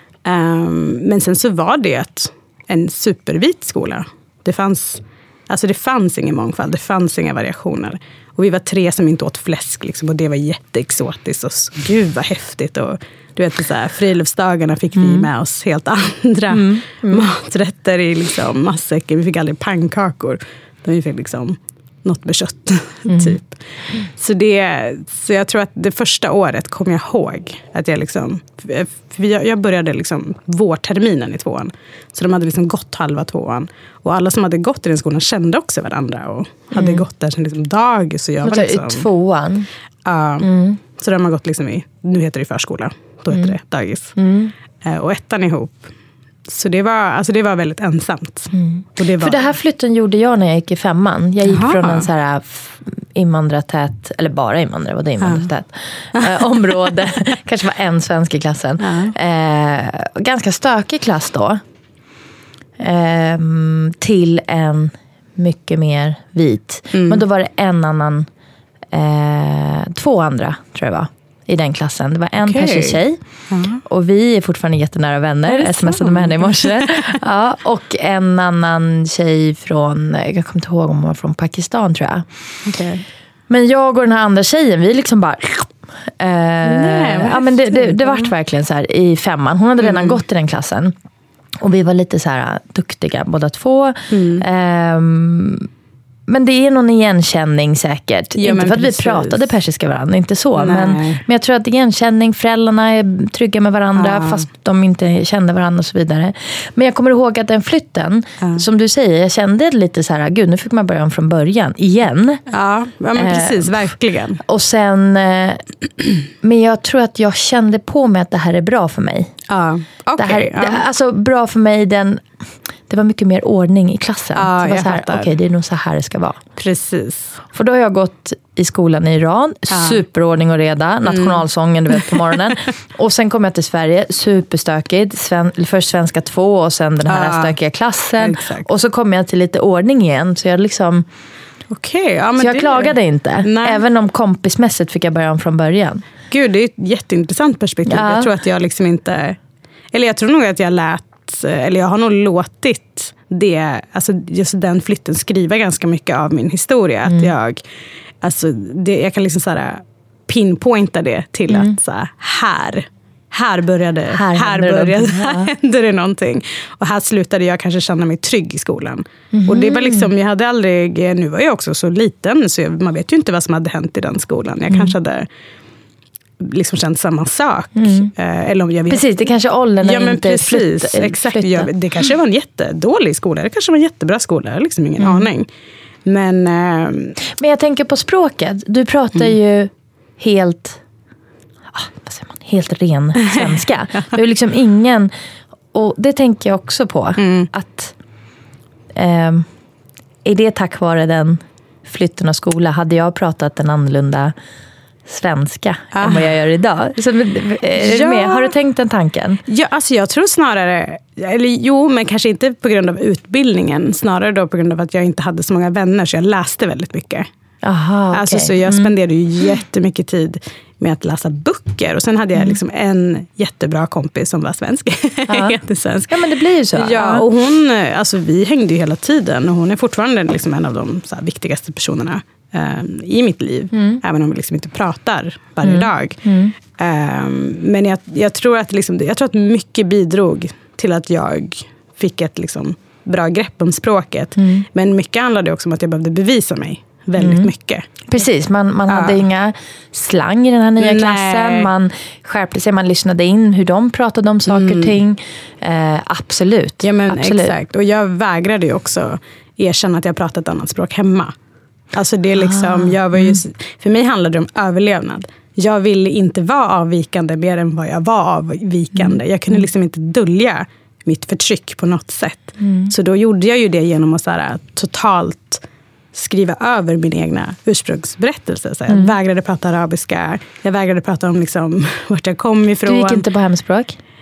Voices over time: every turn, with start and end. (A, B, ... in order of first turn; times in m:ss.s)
0:00.2-0:39.0 A
0:15.0-0:15.3 B
0:16.5-0:17.3 B
0:23.1-0:23.4 B
0:36.7-0:37.0 B
0:38.4-0:39.7 B
0:40.0-0:44.1 A
0:40.4-0:40.8 B
0:44.2-0:44.5 B
0:44.8-0:45.9 A
0:46.5-0:49.4 A
0:48.5-1:01.6 B
0:51.4-0:52.1 A
0:55.2-0:55.5 A
0:58.8-0:59.1 A
1:02.8-1:08.3 B
1:06.9-1:07.2 A
1:08.9-1:13.2 B
1:12.4-1:13.8 A
1:13.8-1:22.2 B
1:15.5-1:17.0 A
1:22.6-1:23.0 A
1:23.5-1:30.9 B
1:26.6-1:28.3 A
1:29.8-1:30.2 A
1:31.6-1:35.7 B
1:34.1-1:34.4 A
1:36.3-1:52.4 B
1:38.4-1:39.5 A
1:40.6-1:41.2 A
1:44.0-1:44.4 A
1:52.5-1:54.4 A
1:53.1-1:53.9 B
1:54.4-1:55.6 B
1:56.4-1:59.3 B
1:59.5-2:00.8 A
2:00.2-2:02.2 B
2:02.9-2:06.4 B
2:04.4-2:05.3 A
2:06.6-2:07.4 A
2:07.5-2:21.0 B
2:09.7-2:10.0 A
2:11.0-2:11.4 A
2:17.1-2:17.6 A
2:18.2-2:18.7 A
2:21.7-2:23.8 A
2:22.4-2:26.0 B
2:26.3-2:29.4 A
2:27.9-2:28.3 B
2:29.9-2:37.6 A
2:37.1-2:37.3 B
2:38.2-2:55.3 A
2:41.5-2:41.7 B
2:44.1-2:45.5 B
2:49.3-2:50.1 B
2:54.7-2:54.9 B
2:56.4-2:59.1 A
2:57.8-2:58.1 B
2:58.9-3:01.7 B
2:59.8-3:05.5 A
3:05.0-3:05.3 B
3:06.0-3:07.2 A
3:07.4-3:10.8 B
3:11.7-3:15.1 B
3:13.3-3:13.6 A
3:15.7-3:17.9 B
3:17.2-3:17.5 A
3:18.9-3:19.4 B
3:20.2-3:24.3 B
3:25.1-3:29.4 B
3:25.9-3:26.3 A
3:27.8-3:28.5 A
3:29.5-3:37.3 A
3:37.6-3:38.9 B
3:38.1-4:08.0 A
3:45.3-3:45.6 B
3:46.1-3:47.2 B
3:53.7-3:54.0 B
3:55.6-3:56.5 B
4:04.4-4:04.6 B
4:07.2-4:07.5 B
4:08.1-4:17.5 B
4:08.9-4:09.2 A
4:10.8-4:11.7 A
4:14.5-4:15.0 A
4:16.8-4:21.3 A
4:21.9-4:35.6 A
4:22.4-4:23.4 B
4:29.0-4:29.6 B
4:32.6-4:32.9 B
4:36.1-4:43.2 A
4:38.9-4:39.2 B
4:42.8-4:44.0 B